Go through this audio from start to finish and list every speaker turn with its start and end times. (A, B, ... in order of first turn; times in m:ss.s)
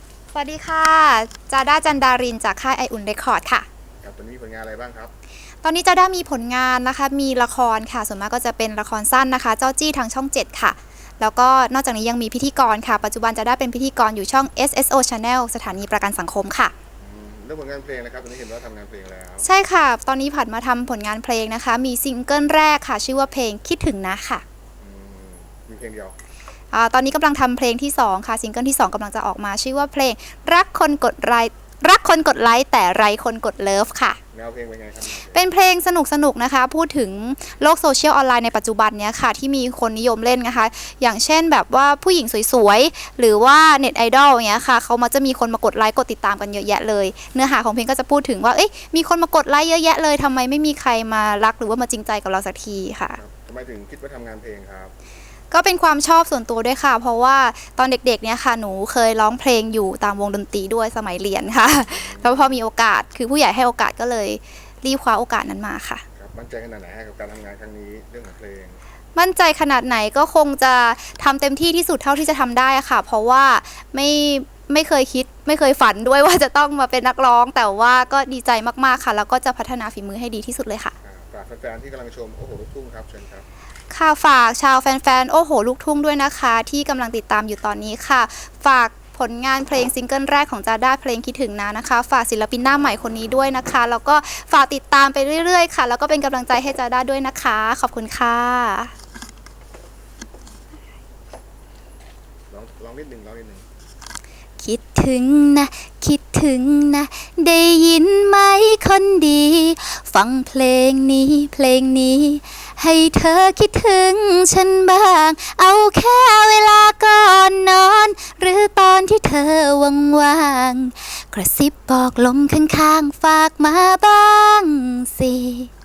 0:00.3-0:03.7 A
0:04.0-0:05.1 B
0:05.6-0:16.7 A
0:17.0-0:19.5 B
0:19.4-0:24.4 A
0:24.8-0:26.2 B
0:26.7-0:34.2 A
0:34.3-0:35.5 B
0:35.3-0:53.2 A
0:53.2-0:54.9 B
0:55.5-1:06.0 A
1:01.9-1:02.6 B
1:06.2-1:08.8 B
1:09.2-1:20.9 A
1:21.0-1:23.5 B
1:23.9-1:38.9 A
1:42.5-1:43.6 B
1:44.6-2:05.7 A